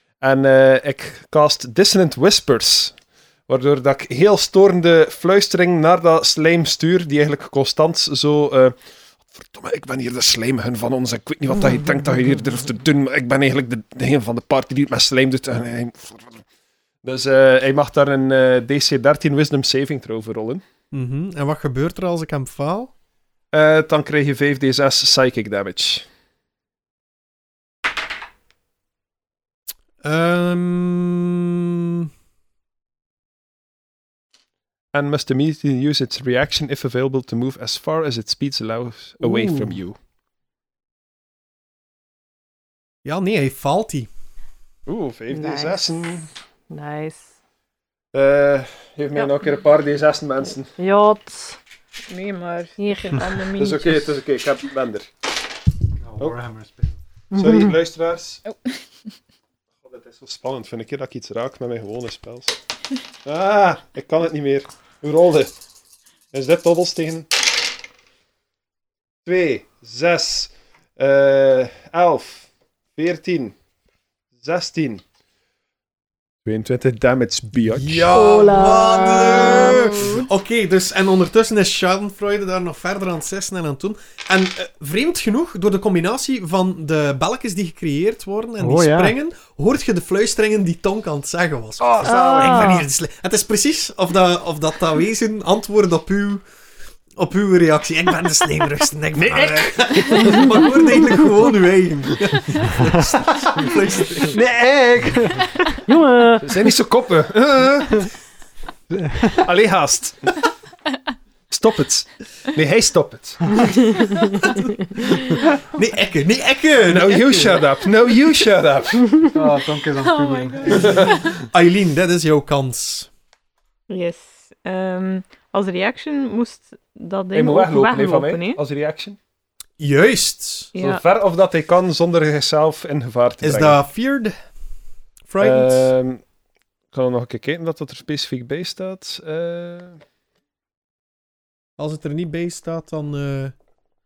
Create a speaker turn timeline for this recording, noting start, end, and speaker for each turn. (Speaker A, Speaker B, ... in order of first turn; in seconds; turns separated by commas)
Speaker A: 0.2-8.8, Speaker A: 9.3-16.4, Speaker A: 17.0-20.6, Speaker B: 20.9-22.9, Speaker A: 23.5-26.1, Speaker B: 30.0-31.4, Speaker A: 34.9-40.0, Speaker B: 39.3-39.6, Speaker B: 43.0-44.1, Speaker A: 44.9-46.3, Speaker C: 45.3-47.3, Speaker A: 48.1-50.7, Speaker C: 50.8-51.6, Speaker D: 52.1-54.2, Speaker C: 52.8-53.2, Speaker A: 53.6-55.1, Speaker E: 56.0-57.0, Speaker C: 57.3-57.7, Speaker A: 57.3-58.4, Speaker A: 59.8-62.5, Speaker A: 63.2-65.5, Speaker A: 66.3-67.3, Speaker A: 69.2-73.5, Speaker A: 74.4-75.0, Speaker A: 76.4-78.2, Speaker B: 77.6-96.4, Speaker C: 78.1-80.0, Speaker E: 88.6-89.1, Speaker A: 91.8-92.5, Speaker C: 92.0-92.8, Speaker B: 97.2-104.4, Speaker A: 99.1-100.5, Speaker E: 102.8-103.0, Speaker E: 104.3-105.6, Speaker C: 105.9-106.5, Speaker A: 106.4-108.0, Speaker E: 108.9-109.4, Speaker A: 109.4-110.4, Speaker A: 111.5-113.7, Speaker B: 114.5-117.6, Speaker A: 116.8-119.3, Speaker E: 119.3-121.1, Speaker D: 120.1-120.4, Speaker A: 120.7-121.2, Speaker B: 121.3-123.1, Speaker D: 123.9-128.6, Speaker A: 127.3-129.2, Speaker B: 129.8-130.7, Speaker D: 130.8-131.0, Speaker A: 130.8-133.8, Speaker B: 133.4-134.3, Speaker B: 135.3-135.9, Speaker A: 135.4-136.2, Speaker A: 136.9-140.0, Speaker B: 141.8-143.5